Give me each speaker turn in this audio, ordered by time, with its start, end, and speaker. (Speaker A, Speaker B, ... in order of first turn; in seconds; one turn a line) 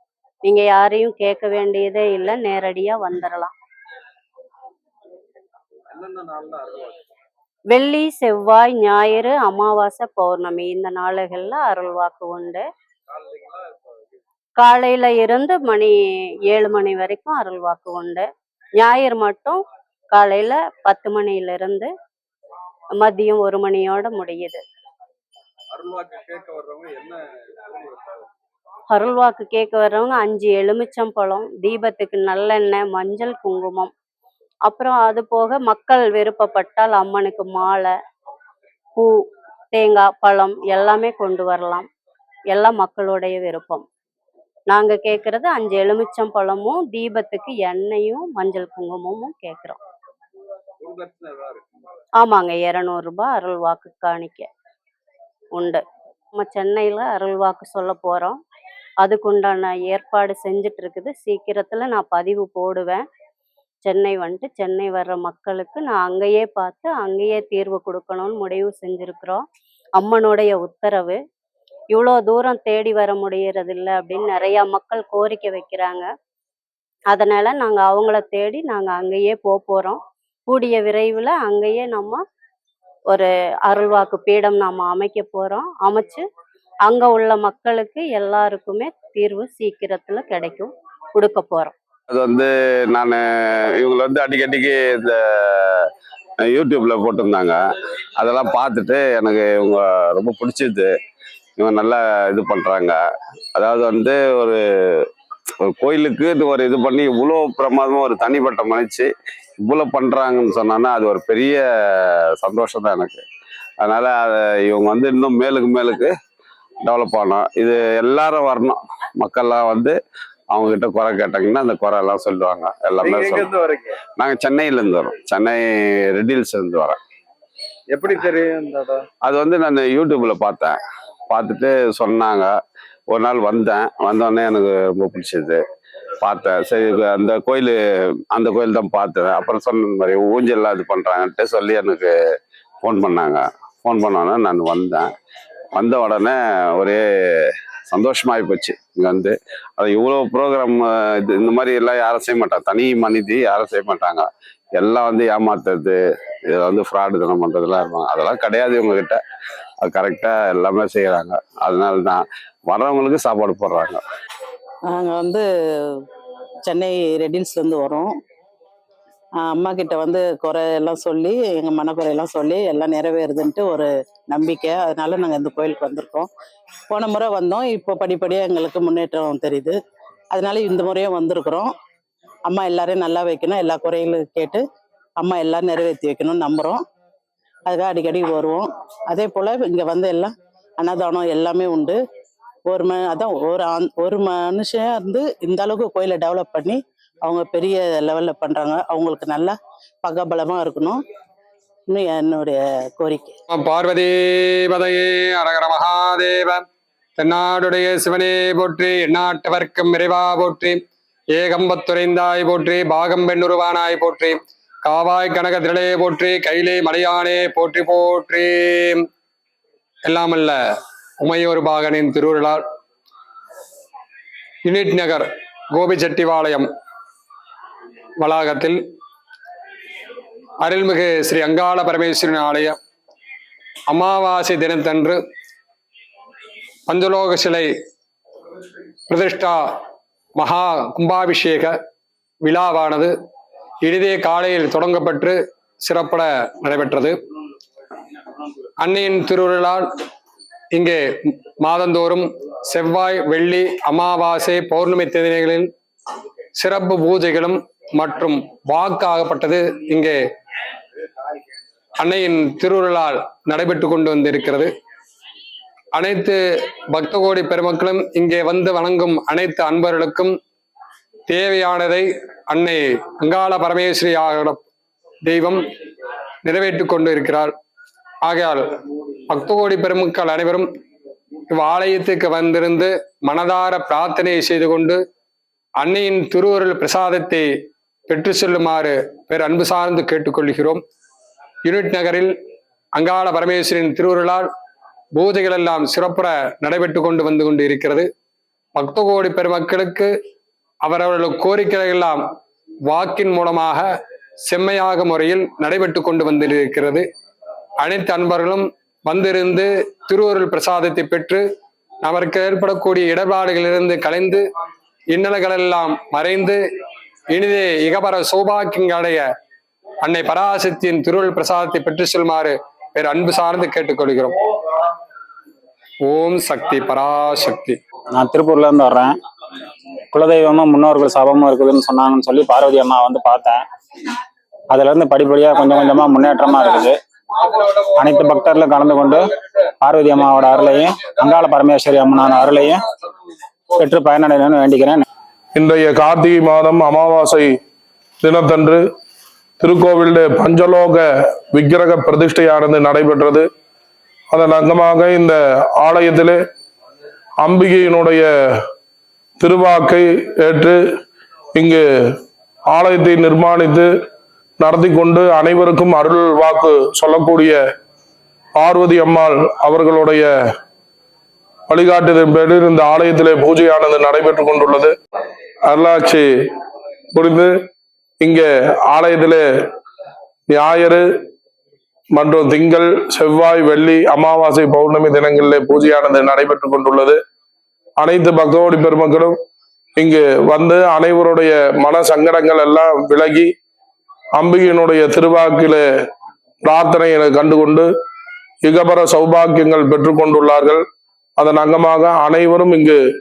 Speaker A: 0.5-3.5
Speaker B: 5.9-7.0
Speaker A: 7.7-12.6
Speaker A: 14.6-18.2
Speaker A: 18.8-19.6
Speaker A: 20.1-21.9
Speaker A: 23.0-24.6
Speaker B: 25.8-28.3
Speaker A: 28.9-33.9
Speaker A: 34.7-37.9
Speaker A: 39.7-41.9
Speaker A: 42.5-43.8
Speaker A: 44.7-49.8
Speaker B: 50.8-51.6
Speaker A: 52.2-54.5
Speaker A: 55.6-55.8
Speaker A: 56.3-58.4
Speaker A: 59.0-63.0
Speaker A: 63.9-69.4
Speaker A: 70.0-71.2
Speaker A: 71.9-76.1
Speaker A: 77.1-82.2
Speaker A: 83.1-86.2
Speaker A: 86.9-91.7
Speaker C: 92.1-95.8
Speaker C: 96.4-97.6
Speaker C: 98.2-100.9
Speaker C: 101.6-103.0
Speaker C: 103.5-105.0
Speaker C: 105.7-109.1
Speaker C: 109.6-113.2
Speaker C: 113.8-116.1
Speaker C: 116.8-120.0
Speaker C: 120.5-123.5
Speaker B: 123.0-124.0
Speaker C: 124.2-127.0
Speaker B: 127.9-129.1
Speaker C: 129.2-130.8
Speaker C: 131.3-132.5
Speaker C: 133.1-135.6
Speaker C: 136.2-137.8
Speaker C: 138.3-142.1
Speaker C: 142.8-145.1
Speaker C: 145.7-147.0
Speaker C: 147.9-156.0
Speaker C: 156.5-159.2
Speaker C: 159.8-164.0
Speaker D: 164.9-165.9
Speaker D: 166.7-168.1
Speaker D: 169.4-176.3
Speaker D: 176.9-179.8
Speaker D: 180.3-181.7
Speaker D: 182.5-184.6
Speaker D: 185.2-186.8
Speaker D: 187.7-192.0
Speaker D: 192.7-201.0
Speaker D: 201.9-203.3
Speaker E: 203.5-206.6
Speaker E: 207.2-210.8
Speaker E: 211.3-219.1
Speaker E: 220.1-220.6
Speaker E: 221.2-222.6
Speaker E: 224.7-226.7
Speaker E: 228.2-228.8
Speaker E: 230.6-232.8
Speaker E: 233.9-235.2
Speaker E: 236.9-237.7
Speaker E: 239.1-239.8
Speaker E: 240.4-241.7
Speaker E: 242.4-243.1
Speaker E: 243.8-247.2
Speaker E: 248.8-249.9
Speaker E: 250.7-255.7
Speaker E: 256.6-260.2
Speaker E: 262.0-264.7
Speaker E: 265.9-266.4
Speaker E: 266.9-270.4
Speaker E: 271.3-274.6
Speaker E: 275.2-275.6
Speaker E: 276.4-277.5
Speaker E: 278.2-278.6
Speaker E: 279.3-280.7
Speaker E: 281.5-285.0
Speaker E: 285.8-287.5
Speaker E: 288.1-290.8
Speaker E: 291.6-292.3
Speaker E: 293.0-294.5
Speaker E: 295.2-298.1
Speaker E: 298.8-300.1
Speaker E: 300.8-302.2
Speaker E: 302.9-303.9
Speaker E: 304.5-307.1
Speaker E: 307.8-311.4
Speaker E: 312.0-314.4
Speaker E: 315.1-316.6
Speaker E: 317.3-319.3
Speaker E: 320.0-324.3
Speaker E: 326.1-327.8
Speaker F: 328.1-329.2
Speaker F: 330.1-333.6
Speaker F: 334.7-339.3
Speaker F: 339.8-342.8
Speaker F: 343.7-345.0
Speaker G: 345.6-347.6
Speaker G: 348.2-348.8
Speaker G: 349.6-353.5
Speaker G: 354.3-356.4
Speaker G: 357.4-358.3
Speaker G: 359.4-360.8
Speaker G: 361.5-361.8
Speaker G: 362.7-363.9
Speaker G: 364.6-367.6
Speaker G: 368.6-370.3
Speaker G: 371.7-374.9
Speaker G: 375.7-376.3
Speaker G: 377.1-377.5
Speaker G: 378.2-379.4
Speaker G: 380.5-381.0
Speaker G: 382.1-387.2
Speaker G: 388.0-389.4
Speaker G: 390.0-393.5
Speaker G: 394.4-395.8
Speaker G: 396.6-397.9
Speaker G: 398.6-400.8
Speaker G: 401.4-403.0